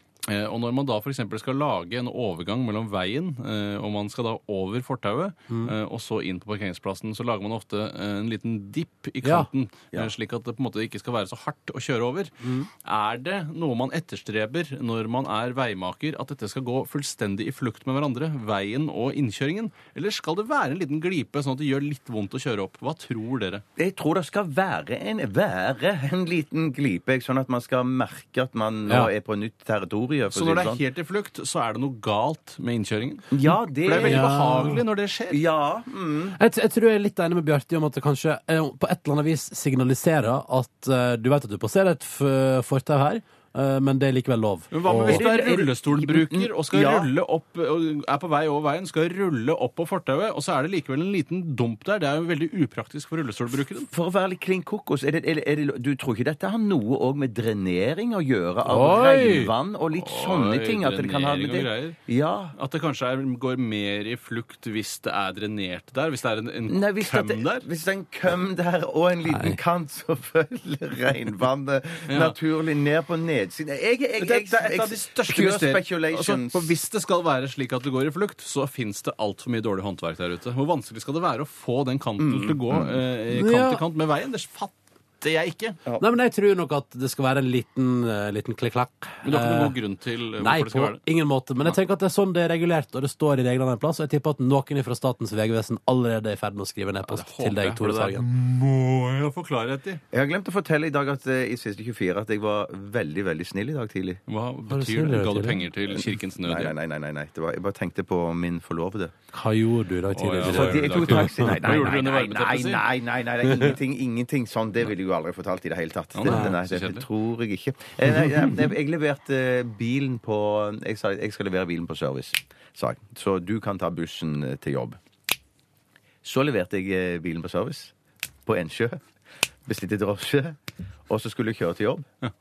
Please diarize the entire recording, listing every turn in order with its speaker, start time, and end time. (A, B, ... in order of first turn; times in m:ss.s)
0:00.3-0:12.3 A
0:09.2-0:09.5 B
0:12.4-0:12.7 B
0:12.8-0:23.6 A
0:23.8-0:30.8 C
0:30.3-0:35.4 A
0:33.3-0:34.3 C
0:34.0-0:34.8 B
0:35.3-0:36.4 C
0:36.4-0:45.6 B
0:44.7-0:53.9 A
0:44.9-0:47.1 C
0:53.9-1:02.6 C
0:58.7-0:59.5 B
0:59.9-1:02.0 A
1:02.6-1:07.7 A
1:06.7-1:16.7 C
1:09.3-1:09.6 B
1:12.1-1:12.4 A
1:14.2-1:25.8 A
1:22.2-1:23.0 C
1:23.3-1:23.8 B
1:26.0-1:29.8 B
1:29.2-1:31.0 A
1:30.4-1:38.3 B
1:37.1-1:40.0 A
1:40.1-1:44.2 C
1:44.3-1:46.7 A
1:44.7-1:45.6 B
1:45.9-1:49.1 C
1:49.3-1:51.8 B
1:50.1-1:52.8 A
1:50.5-2:05.0 C
1:56.2-1:57.1 A
2:06.2-2:07.9 C
2:08.5-2:09.0 C
2:09.7-2:10.6 C
2:11.1-2:12.1 C